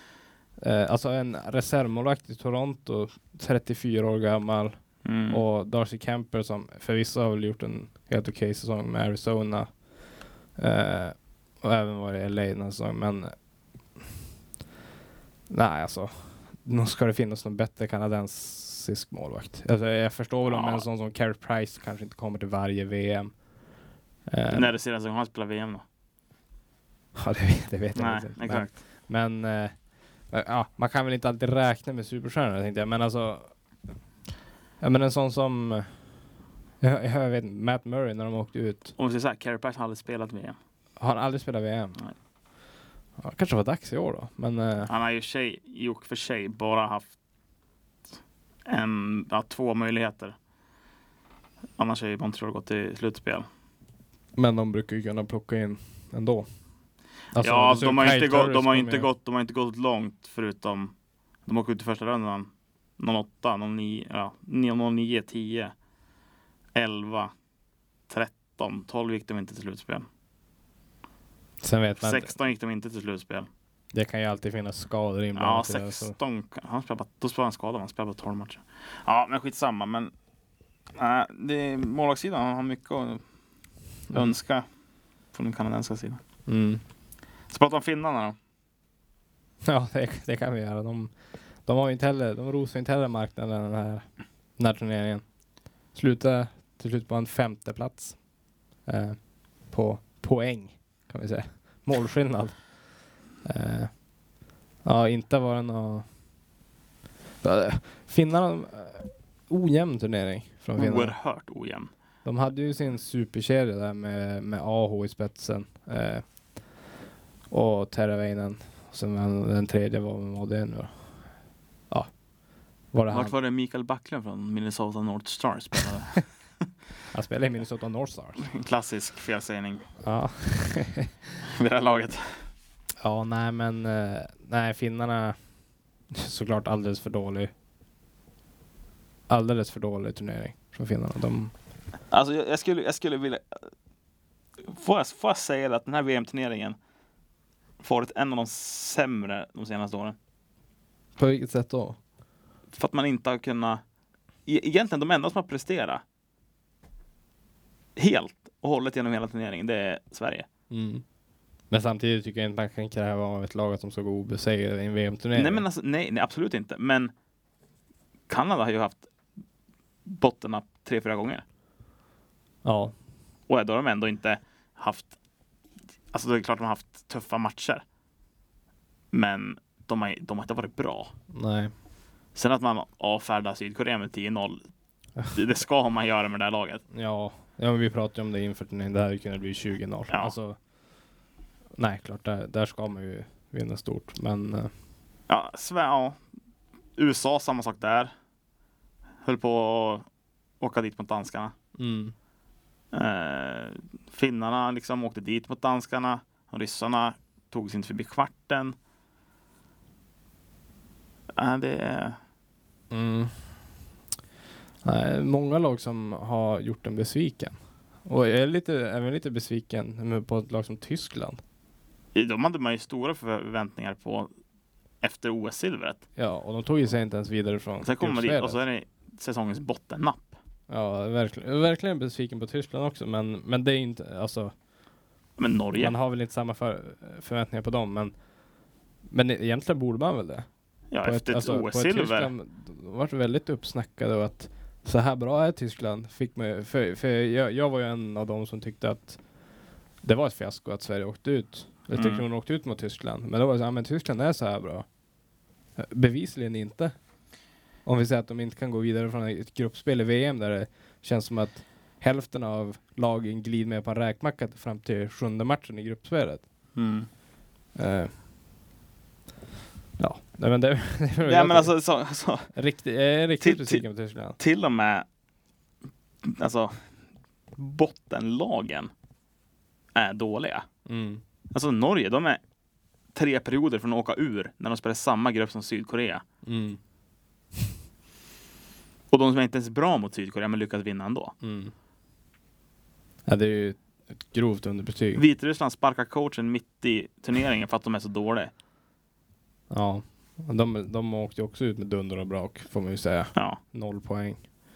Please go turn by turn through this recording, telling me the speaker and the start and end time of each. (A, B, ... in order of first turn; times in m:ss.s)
0:00.6-0:04.8 A
0:05.0-0:05.4 B
0:05.3-0:09.7 A
0:10.6-0:13.3 A
0:15.5-0:23.3 A
0:20.5-0:20.8 B
0:24.3-0:24.7 A
0:24.5-0:25.8 B
0:27.2-0:29.7 A
0:27.9-0:28.7 B
0:30.3-0:33.5 A
0:34.8-0:35.9 A
0:36.8-0:38.9 A
0:39.0-0:40.6 B
0:41.0-0:42.0 A
0:43.2-0:44.9 A
0:44.9-0:47.1 B
0:48.6-0:50.4 B
0:51.8-0:53.4 B
0:54.4-0:56.5 A
0:57.3-0:59.1 A
0:57.4-1:00.9 B
1:01.4-1:05.7 B
1:06.7-1:07.3 B
1:08.1-1:10.1 B
1:11.6-1:12.3 A
1:12.0-1:13.5 B
1:13.9-1:16.2 A
1:15.4-1:20.1 B
1:21.0-1:23.2 B
1:24.1-1:24.6 B
1:25.3-1:26.2 B
1:26.4-1:26.8 A
1:27.5-1:28.4 B
1:29.6-1:31.1 A
1:31.6-1:34.0 A
1:34.6-1:35.2 A
1:35.9-1:38.2 A
1:38.8-1:42.6 A
1:43.4-1:43.9 A
1:44.8-1:46.0 A
1:47.4-1:51.1 A
1:50.8-1:51.9 B
1:52.2-1:56.2 A
1:57.5-2:00.9 A
2:02.9-2:03.3 A
2:03.1-2:06.2 B
2:07.1-2:08.4 A
2:08.4-2:09.8 B
2:10.0-2:11.1 A
2:11.4-2:12.4 B
2:13.0-2:15.4 A
2:16.1-2:17.5 A
2:19.3-2:21.5 A
2:22.1-2:23.7 B
2:24.6-2:26.8 B
2:27.8-2:30.2 B
2:31.2-2:32.0 A
2:32.8-2:33.8 B
2:34.4-2:36.0 B
2:38.0-2:40.5 B
2:40.7-2:41.0 A
2:41.7-2:45.6 A
2:45.3-2:47.1 B
2:48.3-2:49.1 B
2:50.1-2:51.4 B
2:52.6-2:52.9 A
2:53.5-2:55.1 B
2:56.1-2:57.8 B
2:59.1-3:01.1 B
3:01.3-3:01.7 A
3:02.3-3:04.7 B
3:05.3-3:06.8 B
3:06.9-3:10.6 A
3:11.8-3:14.7 A
3:15.3-3:16.2 B
3:17.0-3:18.1 B
3:19.2-3:20.1 B
3:20.6-3:21.5 B
3:21.8-3:22.1 A
3:22.9-3:28.8 B
3:31.4-3:32.2 B
3:32.9-3:33.4 A
3:34.8-3:41.4 A
3:42.1-3:44.3 B
3:45.0-3:46.0 B
3:46.2-3:48.6 A
3:47.8-3:50.4 B
3:50.7-3:54.5 A
3:55.4-3:56.0 B
3:55.8-3:58.1 A
3:59.1-4:00.5 A
4:00.9-4:02.3 B
4:01.0-4:09.2 A
4:10.0-4:14.8 A
4:11.9-4:12.2 B
4:15.8-4:16.9 A
4:17.8-4:26.4 A
4:26.8-4:27.1 B
4:27.8-4:28.1 A
4:30.0-4:31.7 A
4:31.2-4:32.5 B
4:32.5-4:34.4 A
4:33.4-4:33.8 B
4:34.4-4:35.0 B
4:36.2-4:36.8 B
4:37.6-4:38.9 B
4:39.9-4:40.6 B
4:40.8-4:41.2 A
4:41.5-4:42.4 B
4:43.1-4:46.2 B
4:46.4-4:46.8 A
4:49.1-4:51.3 B
4:51.4-4:51.7 A
4:53.2-4:55.2 A
4:55.1-4:58.5 B
4:59.7-5:04.4 A